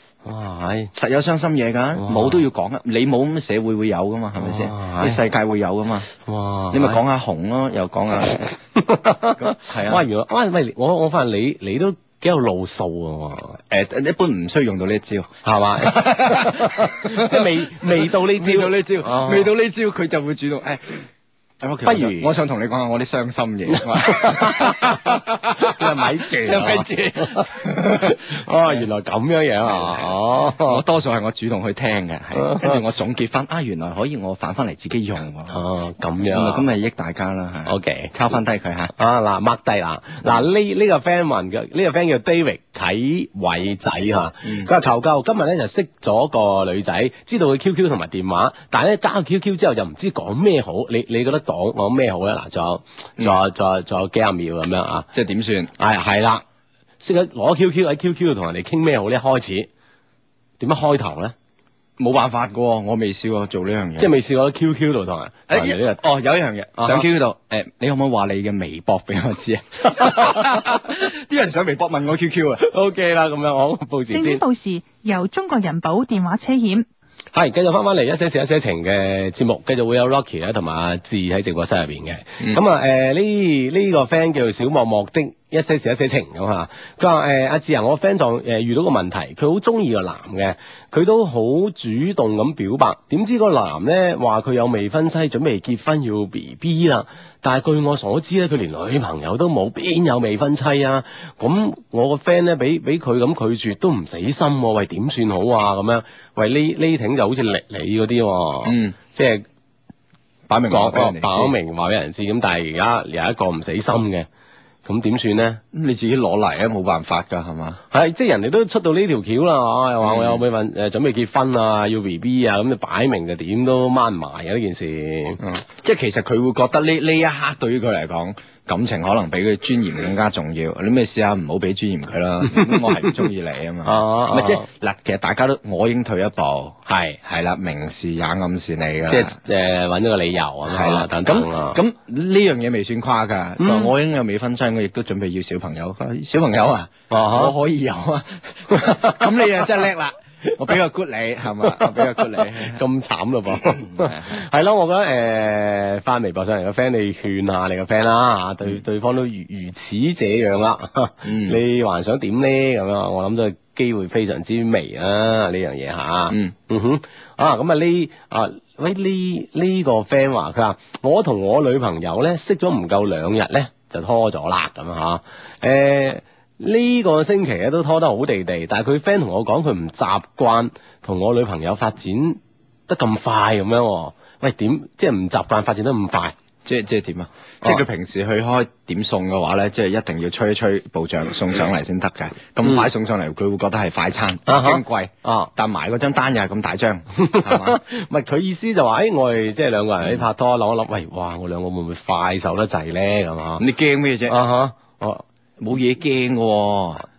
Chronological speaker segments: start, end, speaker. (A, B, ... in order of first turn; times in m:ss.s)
0:00.2-0:00.9 A
0:00.9-0:06.1 B
0:02.0-0:02.4 A
0:04.4-0:05.2 A
0:06.3-0:07.0 A
0:06.7-0:08.5 B
0:08.8-0:13.6 A
0:09.4-0:10.0 B
0:13.7-0:20.9 B
0:15.4-0:19.5 A
0:21.6-0:28.8 B
0:21.8-0:22.3 A
0:23.8-0:30.8 A
0:29.7-0:30.1 B
0:30.6-0:35.6 B
0:32.3-0:32.8 A
0:35.5-0:36.6 A
0:36.2-0:38.9 B
0:37.7-0:38.1 A
0:39.0-0:55.1 A
0:44.4-0:44.7 B
0:55.1-0:55.7 B
0:55.8-0:56.4 A
0:57.0-0:59.7 A
1:00.6-1:01.4 A
1:02.0-1:04.2 B
1:04.0-1:06.0 A
1:05.5-1:12.6 B
1:06.8-1:07.1 A
1:12.6-1:14.4 A
1:14.1-1:16.8 C
1:17.3-1:49.5 A
1:48.6-1:49.0 B
1:50.5-1:51.6 B
1:50.7-1:54.3 A
1:54.8-1:55.6 A
1:55.7-1:57.8 B
1:57.9-2:05.4 A
2:00.0-2:00.4 B
2:05.4-2:19.4 B
2:12.5-2:13.1 A
2:13.8-2:14.7 A
2:16.9-2:17.2 A
2:19.1-2:21.8 A
2:20.7-2:32.8 B
2:23.6-2:23.9 A
2:27.1-2:27.6 A
2:28.7-2:29.7 A
2:31.6-3:06.4 A
2:33.9-2:34.3 B
2:41.2-2:41.6 B
3:06.7-3:17.8 B
3:14.5-3:15.5 A
3:17.2-3:23.6 A
3:23.6-3:24.4 B
3:24.3-3:25.2 A
3:25.6-3:27.1 B